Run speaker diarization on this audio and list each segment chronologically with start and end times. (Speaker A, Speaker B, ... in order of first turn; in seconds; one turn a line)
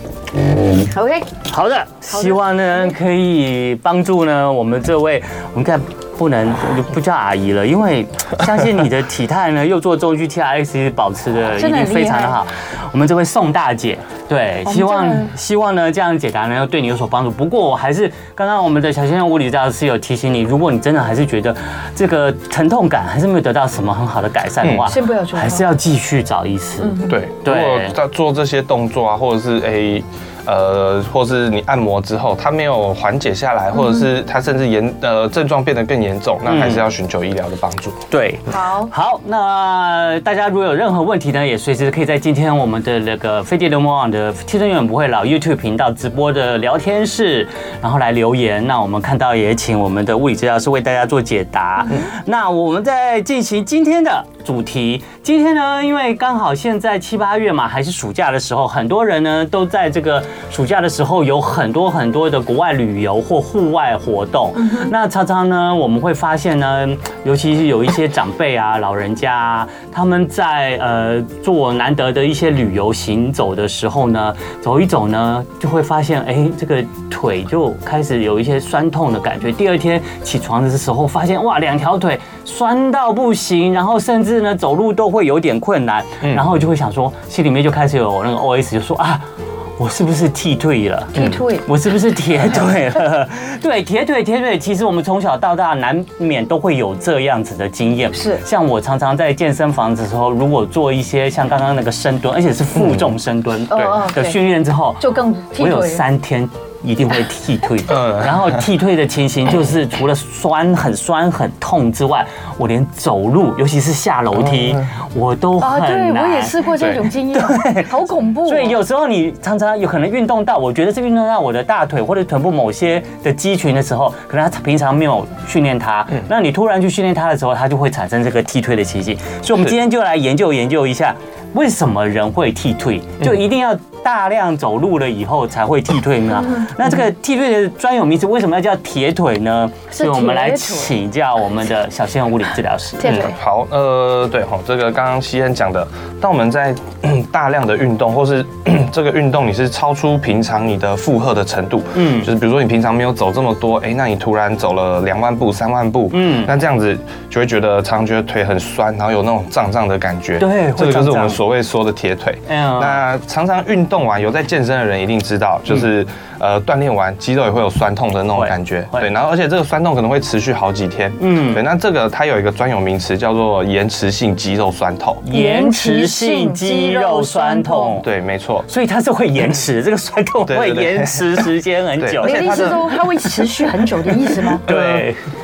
Speaker A: 0.9-1.3
Speaker B: 1.5-27.9
Speaker A: 2.1-2.9
Speaker A: 11.6-12.4
Speaker A: 14.7-15.3
Speaker C: 24.6-24.9
Speaker A: 24.9-25.7
Speaker A: 26.8-27.1
Speaker C: 27.1-38.0
Speaker B: 36.5-36.8
Speaker B: 38.1-89.2
Speaker A: 38.5-38.9
Speaker A: 64.6-64.9
Speaker C: 86.2-86.5
Speaker B: 89.8-117.9
Speaker A: 91.1-91.7
Speaker A: 98.1-98.4
Speaker C: 102.8-103.1
Speaker A: 103.7-104.4
Speaker A: 105.0-106.0
Speaker C: 107.9-108.6
Speaker C: 114.4-114.8
Speaker A: 115.6-118.8
Speaker B: 118.4-143.2
Speaker A: 139.9-140.9
Speaker A: 143.0-143.3
Speaker C: 143.0-175.2
Speaker B: 151.9-152.3
Speaker B: 156.1-156.5
Speaker B: 160.4-161.4
Speaker B: 162.5-163.0
Speaker B: 168.3-169.1
Speaker B: 171.2-171.6
Speaker B: 175.2-178.1
Speaker A: 175.3-178.0
Speaker C: 178.0-178.7
Speaker B: 178.7-183.7
Speaker C: 180.4-182.9
Speaker A: 182.2-184.6
Speaker B: 184.3-185.2
Speaker C: 184.6-185.1